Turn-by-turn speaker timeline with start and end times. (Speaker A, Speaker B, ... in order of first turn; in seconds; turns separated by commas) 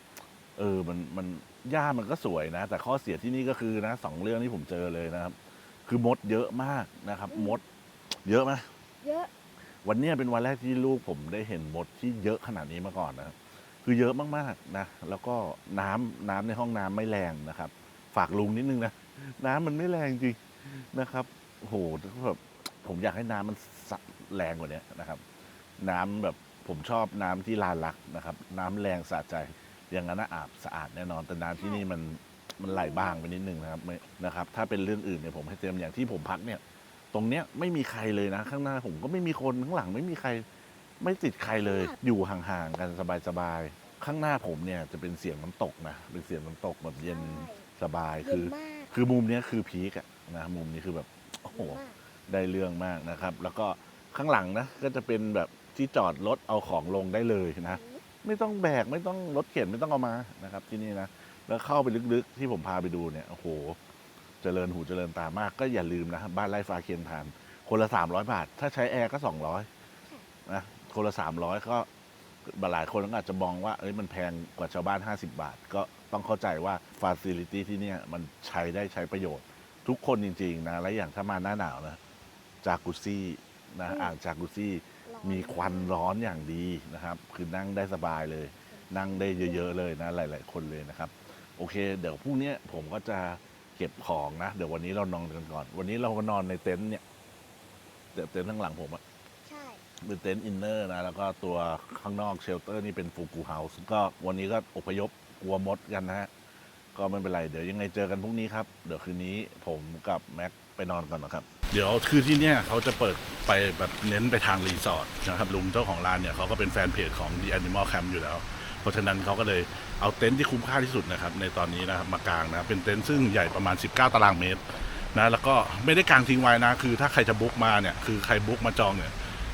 Speaker A: 0.6-5.3, Speaker A: 5.9-7.6, Speaker B: 7.3-7.6, Speaker A: 8.2-8.7, Speaker B: 9.0-9.3, Speaker A: 9.8-25.2, Speaker A: 25.8-36.6, Speaker B: 31.6-31.8, Speaker B: 32.7-33.2, Speaker A: 37.1-40.5, Speaker A: 41.0-63.8, Speaker B: 47.0-47.6, Speaker B: 48.2-48.9, Speaker B: 51.5-51.9, Speaker B: 57.7-58.0, Speaker A: 64.4-69.7, Speaker A: 70.5-71.9, Speaker A: 72.5-82.0, Speaker A: 82.6-97.0, Speaker B: 85.1-85.9, Speaker B: 88.8-89.6, Speaker A: 98.1-99.0, Speaker B: 99.5-99.8, Speaker A: 100.0-106.3, Speaker A: 106.9-124.6, Speaker A: 125.1-129.1